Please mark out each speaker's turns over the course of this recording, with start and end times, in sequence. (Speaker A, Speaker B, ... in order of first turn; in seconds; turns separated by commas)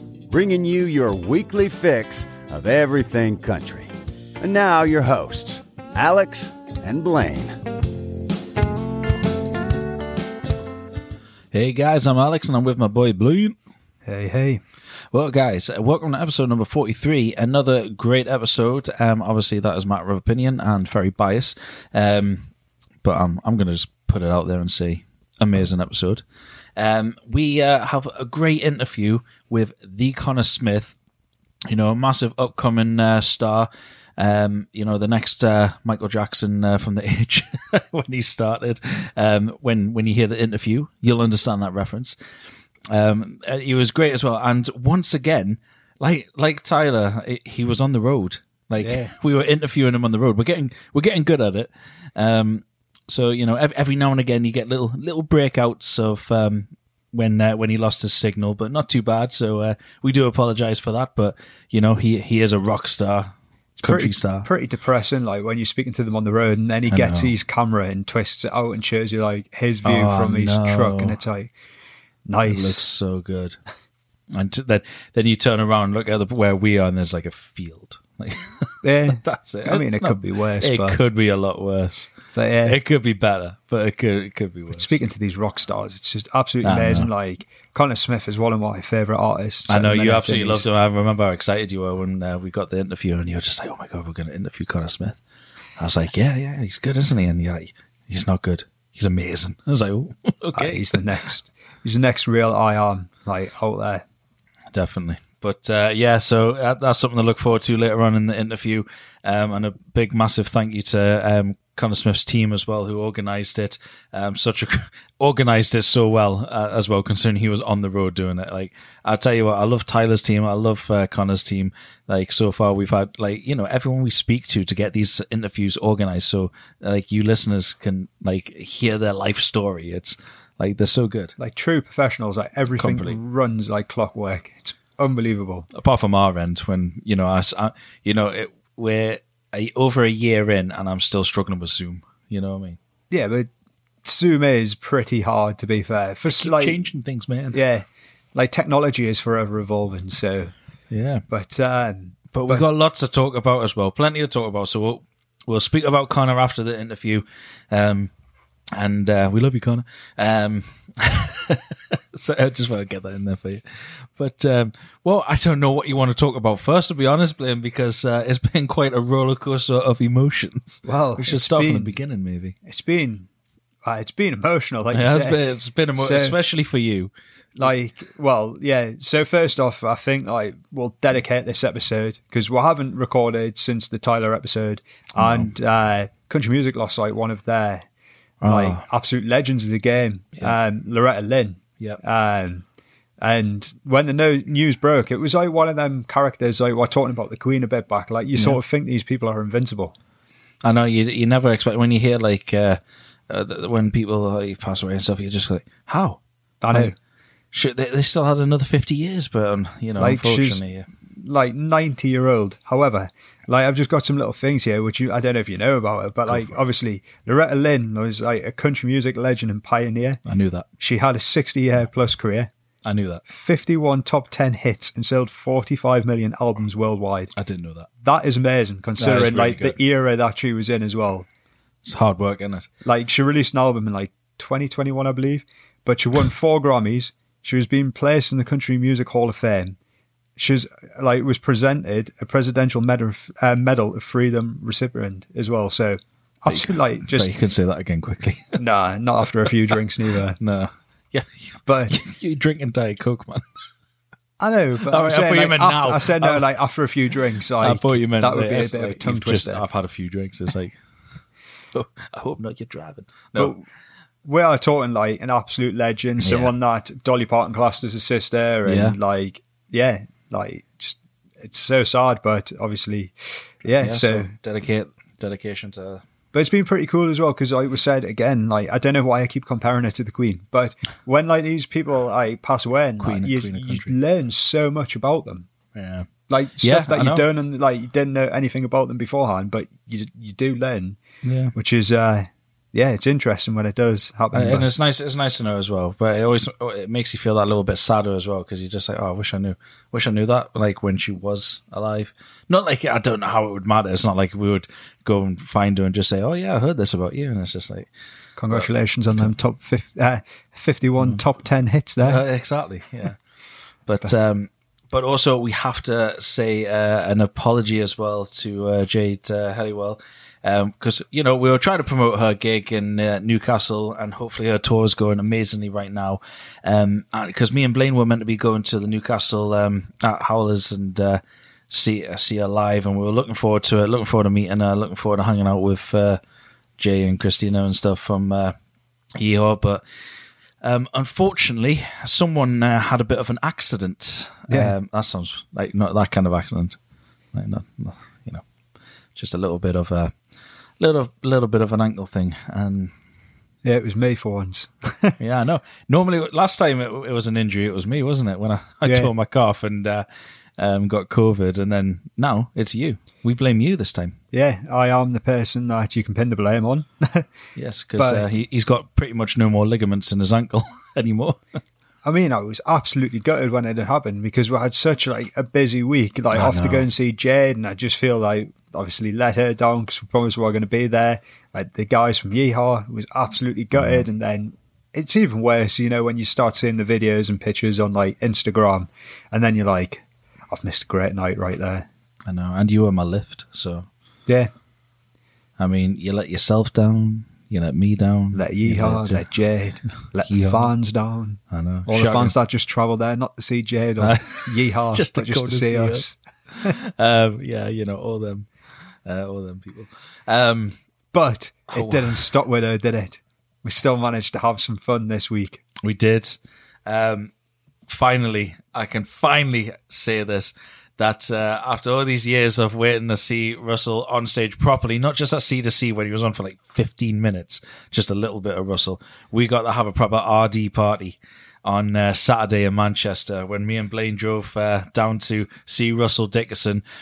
Speaker A: 0.3-7.5, Speaker B: 11.5-13.6, Speaker C: 14.0-14.6, Speaker B: 15.1-22.5, Speaker B: 23.0-26.2, Speaker B: 26.8-30.9, Speaker B: 31.7-42.2, Speaker B: 42.9-64.5, Speaker C: 48.8-49.1, Speaker C: 63.8-71.5, Speaker B: 66.9-67.3, Speaker B: 69.8-71.2, Speaker C: 72.2-72.8, Speaker B: 72.4-73.6, Speaker B: 74.3-85.0, Speaker C: 78.8-81.0, Speaker C: 82.3-82.8, Speaker C: 84.7-90.7, Speaker B: 86.6-87.1, Speaker B: 89.7-95.2, Speaker B: 95.8-101.0, Speaker C: 100.5-104.0, Speaker B: 104.7-131.3, Speaker C: 131.4-135.7, Speaker B: 132.8-133.2, Speaker B: 135.7-142.8, Speaker C: 143.1-143.5, Speaker C: 144.0-146.8, Speaker B: 146.3-147.6, Speaker C: 147.5-150.5, Speaker B: 150.9-151.2, Speaker C: 151.3-152.6, Speaker B: 152.3-158.1, Speaker B: 158.7-172.6, Speaker C: 170.8-171.9, Speaker C: 172.6-173.3, Speaker C: 173.8-175.4, Speaker B: 174.9-177.1, Speaker C: 176.0-176.3, Speaker C: 177.6-187.9, Speaker B: 185.2-185.5, Speaker B: 188.4-188.8, Speaker C: 188.4-192.6, Speaker C: 193.2-199.9, Speaker B: 200.6-206.9, Speaker C: 206.6-206.9, Speaker B: 207.5-210.9, Speaker C: 210.0-210.6, Speaker C: 211.2-220.2, Speaker B: 216.2-216.6, Speaker B: 220.2-220.7, Speaker C: 220.8-222.5, Speaker B: 222.8-223.2, Speaker C: 223.3-227.3, Speaker B: 227.3-227.9, Speaker C: 228.0-231.3, Speaker B: 229.0-229.8, Speaker B: 231.8-232.7, Speaker C: 232.8-239.8, Speaker C: 240.4-247.3, Speaker B: 246.5-248.6, Speaker C: 248.6-250.4, Speaker B: 250.4-253.4, Speaker C: 251.7-251.9, Speaker C: 254.4-259.6, Speaker B: 254.9-256.4, Speaker B: 257.6-260.8, Speaker B: 261.7-263.5, Speaker C: 263.4-263.6, Speaker C: 264.2-274.3, Speaker B: 266.2-266.5, Speaker B: 268.6-269.0, Speaker B: 273.8-276.0, Speaker C: 276.3-285.5, Speaker B: 283.0-283.9, Speaker B: 285.7-286.1, Speaker C: 286.3-291.0, Speaker B: 286.6-287.2, Speaker B: 291.2-291.5, Speaker C: 291.5-294.7, Speaker B: 294.3-307.9, Speaker C: 308.4-312.2, Speaker B: 308.5-309.3, Speaker B: 312.0-313.2, Speaker B: 313.8-336.2, Speaker B: 336.8-338.5, Speaker B: 339.2-339.8, Speaker B: 340.6-346.8, Speaker C: 344.5-344.7, Speaker B: 347.3-348.4, Speaker B: 349.1-350.2, Speaker B: 350.8-352.9, Speaker C: 353.6-355.2, Speaker B: 355.2-360.1, Speaker C: 358.8-359.1, Speaker B: 360.6-364.2, Speaker C: 364.3-367.3, Speaker B: 367.5-371.4, Speaker C: 368.0-368.4, Speaker C: 372.0-391.9, Speaker B: 376.3-376.9, Speaker B: 383.8-384.0, Speaker B: 392.3-393.9, Speaker B: 395.6-399.3, Speaker C: 398.3-406.7, Speaker B: 400.1-400.7, Speaker B: 401.5-402.3, Speaker B: 404.0-408.5, Speaker B: 409.0-410.8, Speaker C: 411.1-415.6, Speaker B: 411.7-412.3, Speaker B: 415.8-417.3, Speaker B: 417.9-436.8